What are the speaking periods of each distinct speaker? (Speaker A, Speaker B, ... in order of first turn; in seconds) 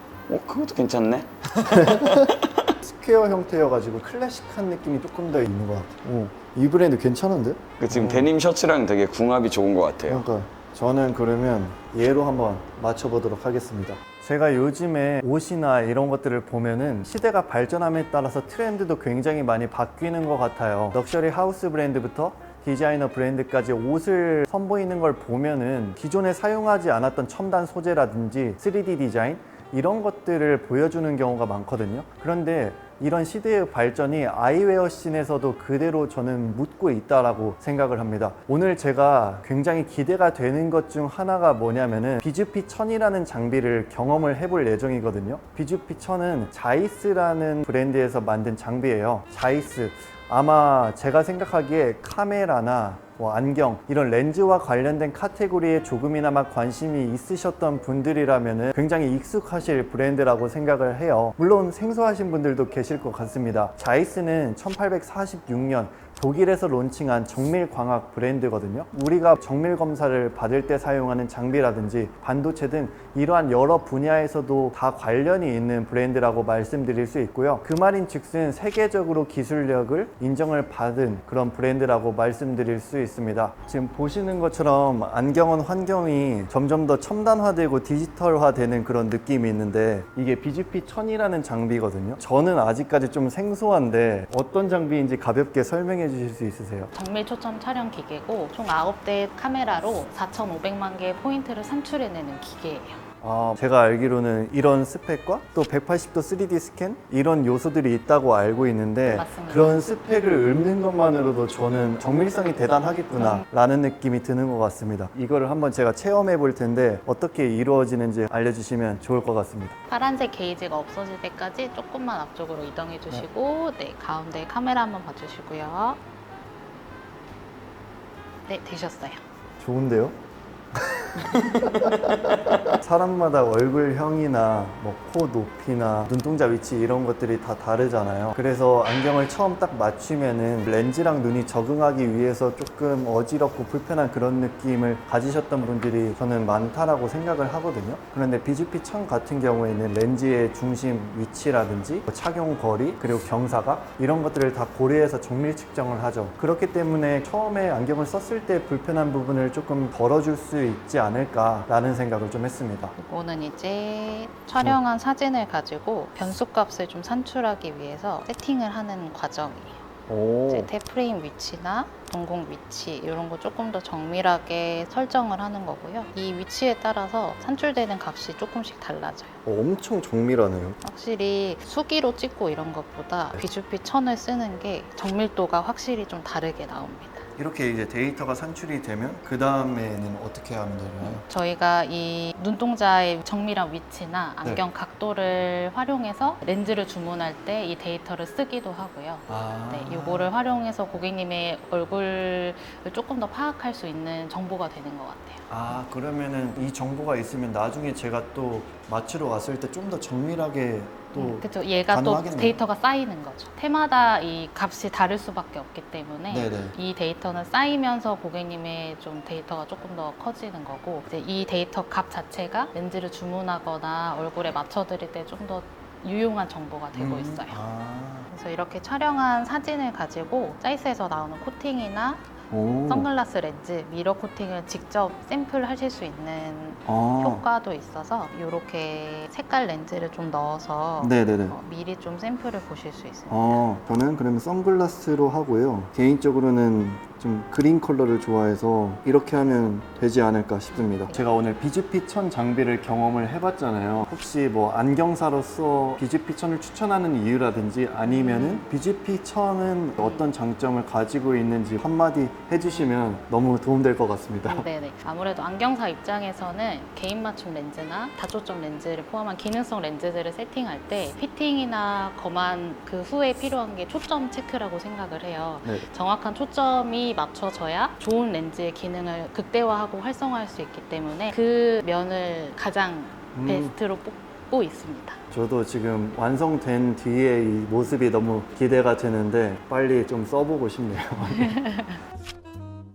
Speaker A: 0.3-2.6, 7.8-10.2
Speaker B: 1.5-8.3, 10.1-96.9, 103.2-119.8, 129.6-130.2, 130.8-162.9, 170.1-170.7, 179.4-180.8, 187.4-191.2, 199.3-200.3, 205.5-212.6, 216.3-216.8, 226.9-228.3, 232.5-233.1, 236.9-237.4, 241.0-241.6, 243.3-264.7, 283.3-283.7, 285.3-291.6
Speaker C: 96.9-103.0, 109.1-109.8, 113.1-113.5, 119.9-126.0, 128.5-129.2, 163.0-169.9, 170.5-179.4, 180.8-187.3, 191.0-205.5, 211.2-227.6, 228.3-232.2, 232.9-243.7, 250.8-251.2, 258.1-258.6, 260.0-260.3, 264.5-285.2, 291.6-291.8